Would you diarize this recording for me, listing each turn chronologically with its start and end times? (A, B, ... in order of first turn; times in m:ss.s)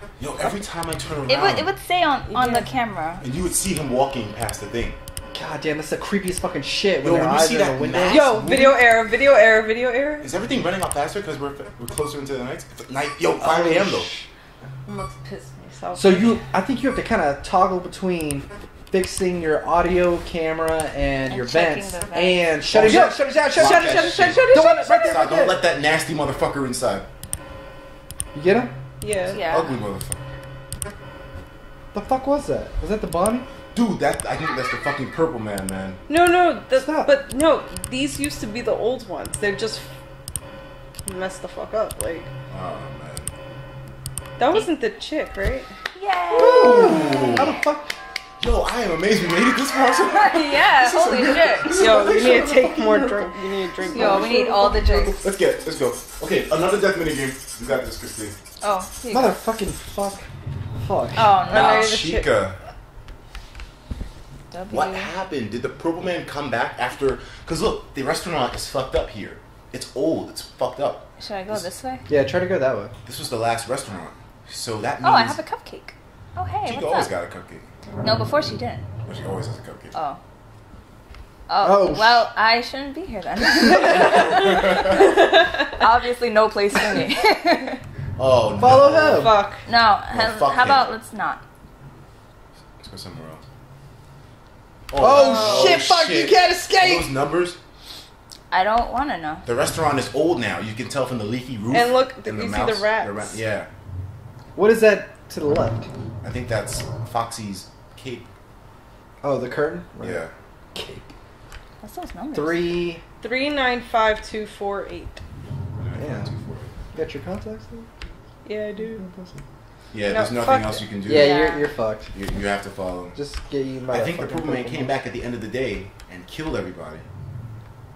0:00.2-0:01.7 A
0:01.3-0:03.2 B
0:02.3-0:02.7 C
0:03.2-0:05.0 A
0:05.3-0:08.6 D
0:07.0-0:08.9 A
0:08.1-0:10.3 C
0:10.2-0:14.1 A
0:13.4-0:14.3 D
0:14.9-0:16.4 C
0:15.9-0:25.6 D
0:21.3-0:22.7 B
0:22.7-0:27.1 A
0:22.9-0:25.2 C
0:28.3-0:28.7 D
0:29.0-0:29.4 C
0:29.3-0:29.8 B
0:29.4-0:30.2 A
0:31.9-0:33.5 D
0:33.7-0:36.0 A
0:36.1-0:39.9 C
0:36.8-0:37.2 D
0:41.1-0:42.3 C
0:42.5-0:43.3 A
0:44.4-0:45.7 C
0:46.0-0:47.5 B
0:46.3-0:47.5 A
0:46.3-0:47.9 D
0:48.4-0:53.3 A
0:50.0-0:51.8 B
0:51.7-0:54.9 C
0:53.9-0:55.3 B
0:53.9-0:58.4 A
0:58.6-0:59.4 B
0:59.1-1:00.3 D
1:00.8-1:01.3 D
1:01.2-1:02.0 B
1:01.5-1:02.3 C
1:01.5-1:02.6 A
1:04.5-1:05.1 B
1:04.7-1:11.6 A
1:11.2-1:12.0 B
1:12.1-1:12.9 D
1:13.0-1:15.4 A
1:15.0-1:17.1 B
1:16.6-1:17.6 A
1:18.0-1:18.8 B
1:19.1-1:20.0 A
1:19.9-1:20.2 B
1:21.5-1:27.8 B
1:21.6-1:22.3 D
1:23.6-1:24.2 D
1:24.3-1:25.0 A
1:24.6-1:25.7 C
1:28.2-1:29.3 A
1:28.6-1:29.4 D
1:29.2-1:29.6 C
1:29.7-1:31.4 B
1:30.1-1:31.0 A
1:32.8-1:33.4 A
1:34.9-1:37.6 A
1:35.0-1:37.2 D
1:35.1-1:35.8 C
1:38.5-1:39.4 B
1:39.4-1:43.7 A
1:41.7-1:43.4 C
1:44.6-1:45.9 D
1:46.2-1:48.3 A
1:49.2-1:50.2 D
1:50.0-1:50.3 A
1:50.8-1:51.1 D
1:51.8-1:52.8 B
1:52.3-1:53.0 D
1:53.2-1:55.2 C
1:55.8-1:56.7 A
1:56.0-1:56.3 D
1:56.9-1:57.9 D
1:58.4-1:59.0 C
1:59.0-1:59.4 D
1:59.9-2:01.4 A
2:00.1-2:00.8 C
2:01.0-2:02.1 D
2:01.1-2:01.7 B
2:02.1-2:03.2 A
2:03.2-2:05.0 D
2:03.9-2:07.1 A